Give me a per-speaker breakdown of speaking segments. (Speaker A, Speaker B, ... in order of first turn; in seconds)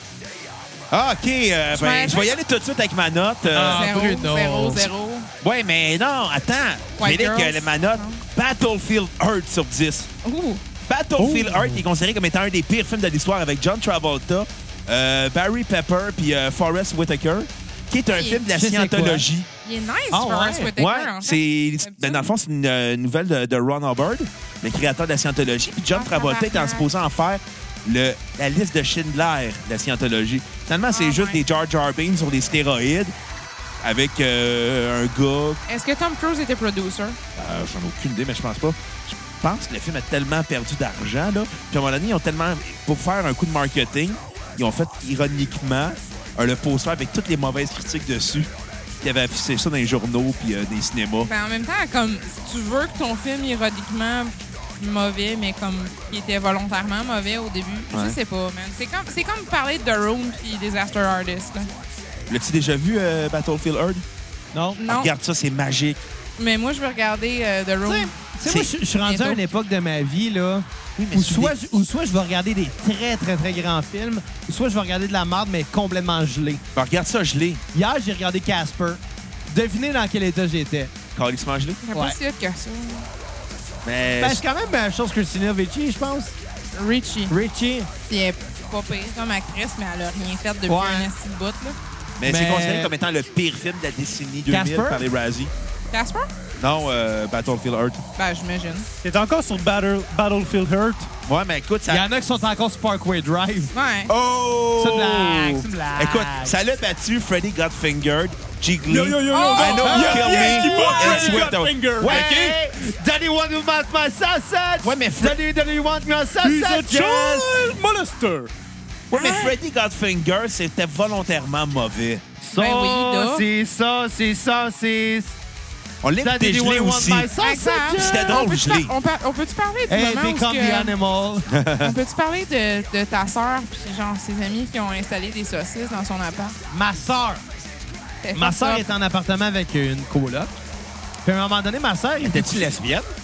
Speaker A: 0.9-3.9, 5.4-10.1, 10.8-19.5, 20.8-33.1, 33.8-35.6, 37.4-51.3, 57.9-58.2, 62.3-64.0, 64.8-66.0, 68.4-68.7, 71.0-71.5, 76.7-77.6, 81.1-81.8, 83.8-84.4, 92.2-95.5, 96.6-98.0, 101.2-102.0, 104.1-112.4, 114.8-115.4, 119.1-122.2, 126.0-127.3, 127.9-128.9, 131.5-131.9, 142.2-143.1
Speaker B: 1.7-2.4, 3.7-5.3, 7.0-8.2, 10.2-10.6, 18.1-18.4, 19.6-22.2, 25.9-26.8, 30.9-31.4, 35.7-37.2, 51.2-61.7, 64.8-65.1, 66.4-68.1, 69.0-69.4, 81.8-83.0, 86.7-87.3, 88.1-91.8, 95.9-96.3, 98.2-98.9, 103.7-104.1, 109.3-110.1, 119.1-119.5, 122.5-123.4, 127.4-130.9, 131.8-136.6, 138.2-138.8
Speaker C: 3.5-4.9, 18.5-19.2, 20.1-20.7, 64.5-64.8, 67.8-76.6, 77.7-80.9, 84.2-86.3, 87.3-87.9, 90.7-91.1, 92.2-92.9, 94.5-95.0, 101.9-103.7, 104.8-106.5, 109.6-117.7, 122.4-125.3, 126.2-128.4, 129.9-131.5, 136.7-137.4, 138.3-140.5, 141.2-142.8
Speaker D: 11.2-11.8, 99.0-101.1, 108.9-112.6, 116.4-118.5